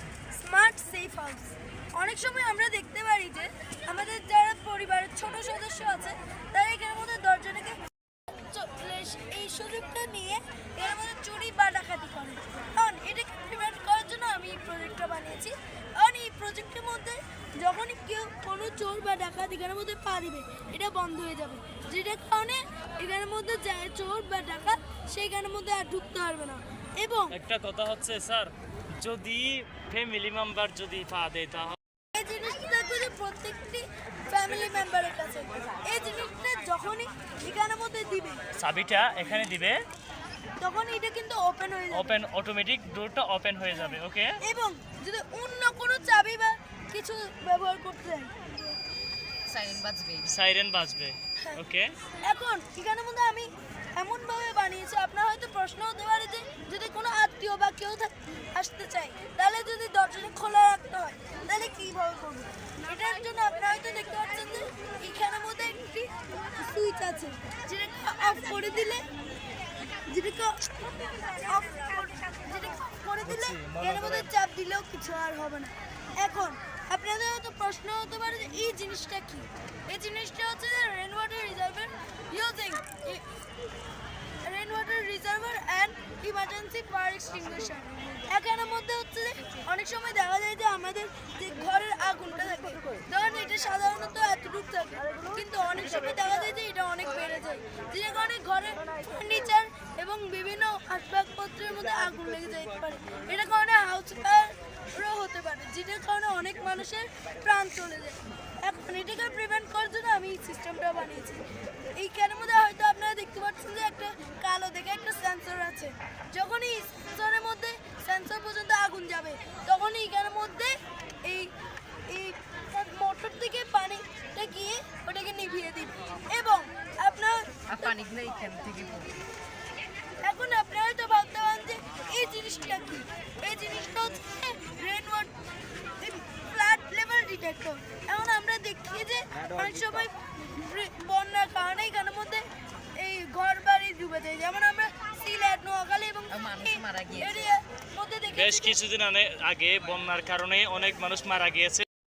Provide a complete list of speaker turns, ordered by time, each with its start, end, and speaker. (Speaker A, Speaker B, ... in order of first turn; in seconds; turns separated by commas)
Speaker A: 0.3-27.4, Speaker B: 27.3-31.8, Speaker A: 32.1-38.4, Speaker B: 38.5-39.8, Speaker A: 40.6-42.2, Speaker B: 41.9-44.4, Speaker A: 44.4-48.3, Speaker C: 49.5-50.4, Speaker B: 50.3-52.0, Speaker A: 52.2-69.0, Speaker A: 70.0-83.2, Speaker B: 73.2-74.3, Speaker A: 84.4-111.4, Speaker A: 112.0-121.5, Speaker A: 122.1-127.5, Speaker C: 127.7-129.2, Speaker A: 130.2-135.3, Speaker A: 136.0-148.8, Speaker C: 146.3-147.5, Speaker B: 148.3-151.8